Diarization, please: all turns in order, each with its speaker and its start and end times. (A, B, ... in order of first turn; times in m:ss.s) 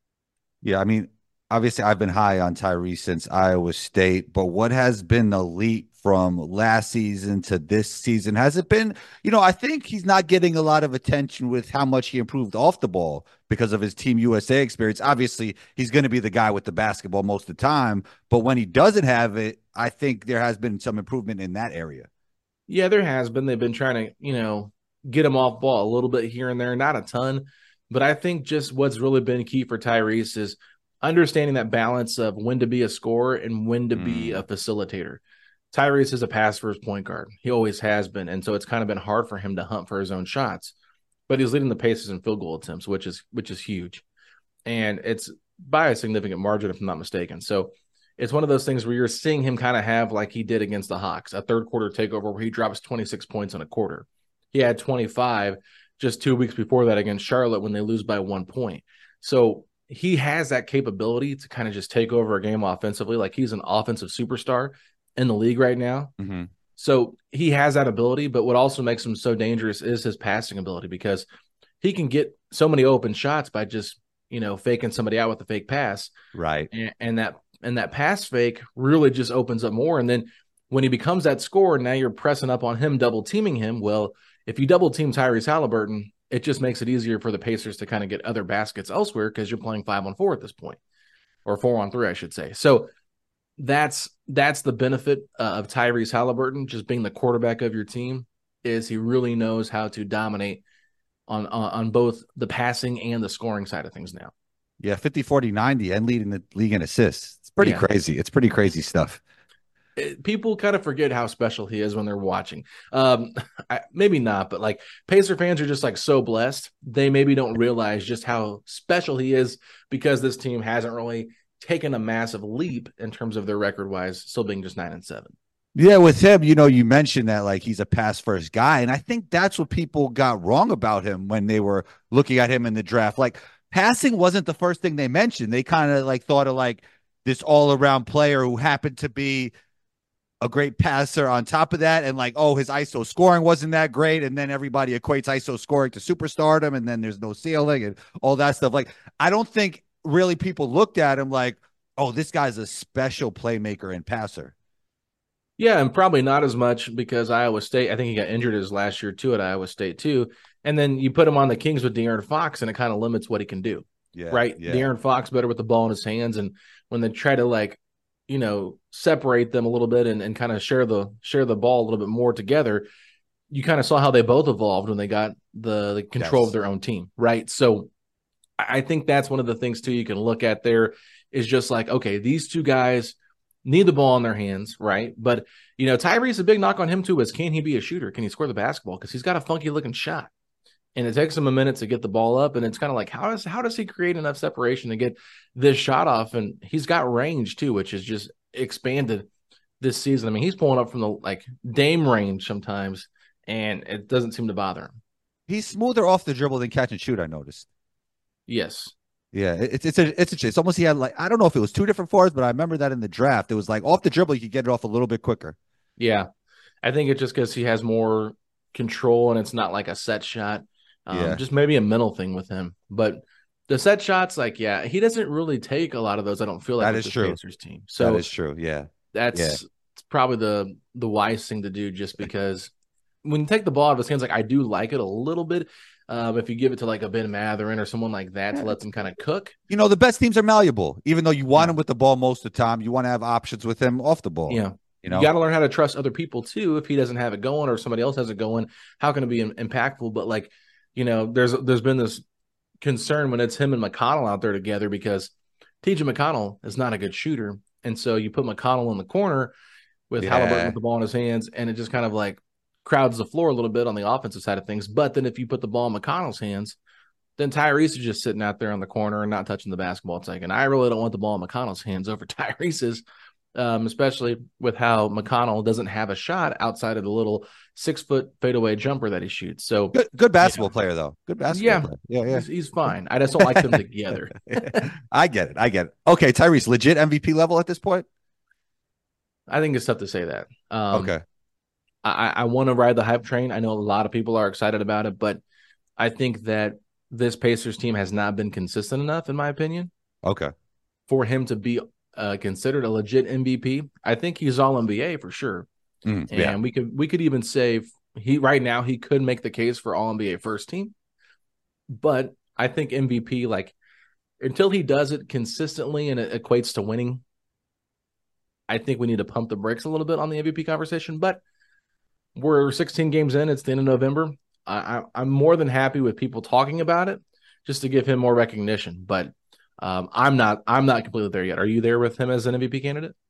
0:00.6-0:22.1 A
0:22.7-0:35.2 B
0:33.9-0:34.4 A
0:35.7-0:40.7 B
0:41.3-0:44.0 B
0:44.6-1:06.1 B
1:06.2-1:06.5 A
1:06.8-1:11.2 B
1:11.8-1:16.1 B
1:16.3-1:16.7 A
1:16.7-1:30.8 B
1:31.4-1:32.9 B
1:33.6-1:40.6 B
1:41.3-1:44.3 B
1:44.8-1:49.2 A
1:47.6-1:47.8 B
1:50.0-2:05.3 B
2:05.7-2:19.5 A
2:20.4-2:34.5 A
2:35.6-2:52.8 B
2:44.1-2:44.9 A
2:53.5-2:57.9 B
2:56.2-2:56.5 A
2:58.6-3:10.3 B
3:11.0-3:19.2 B
3:19.8-3:25.0 B
3:25.5-3:27.7 A
3:28.5-3:28.9 B
3:29.3-3:35.6 A
3:36.0-3:36.3 B
3:36.8-3:48.2 B
3:41.1-3:41.4 A
3:46.8-3:47.4 A
3:48.0-3:49.6 A
3:49.1-3:52.7 B
3:53.2-3:59.6 B
3:59.7-4:05.3 A
4:04.5-4:12.2 B
4:12.8-4:15.3 B
4:15.8-4:19.5 B
4:20.1-4:26.8 B
4:20.2-4:20.8 A
4:27.4-4:33.0 B
4:33.5-4:40.7 B
4:39.9-4:42.4 A
4:41.5-4:44.9 B
4:43.4-4:43.8 A
4:44.6-4:48.0 A
4:49.5-4:51.1 B
4:50.9-4:51.2 A
4:52.0-4:55.4 B
4:56.0-4:59.9 B
5:00.2-5:00.5 A
5:01.1-5:05.7 B
5:06.0-5:06.6 A
5:06.3-5:10.9 B
5:11.9-5:13.7 B
5:14.4-5:17.2 B
5:18.7-5:21.4 B
5:22.4-5:33.1 B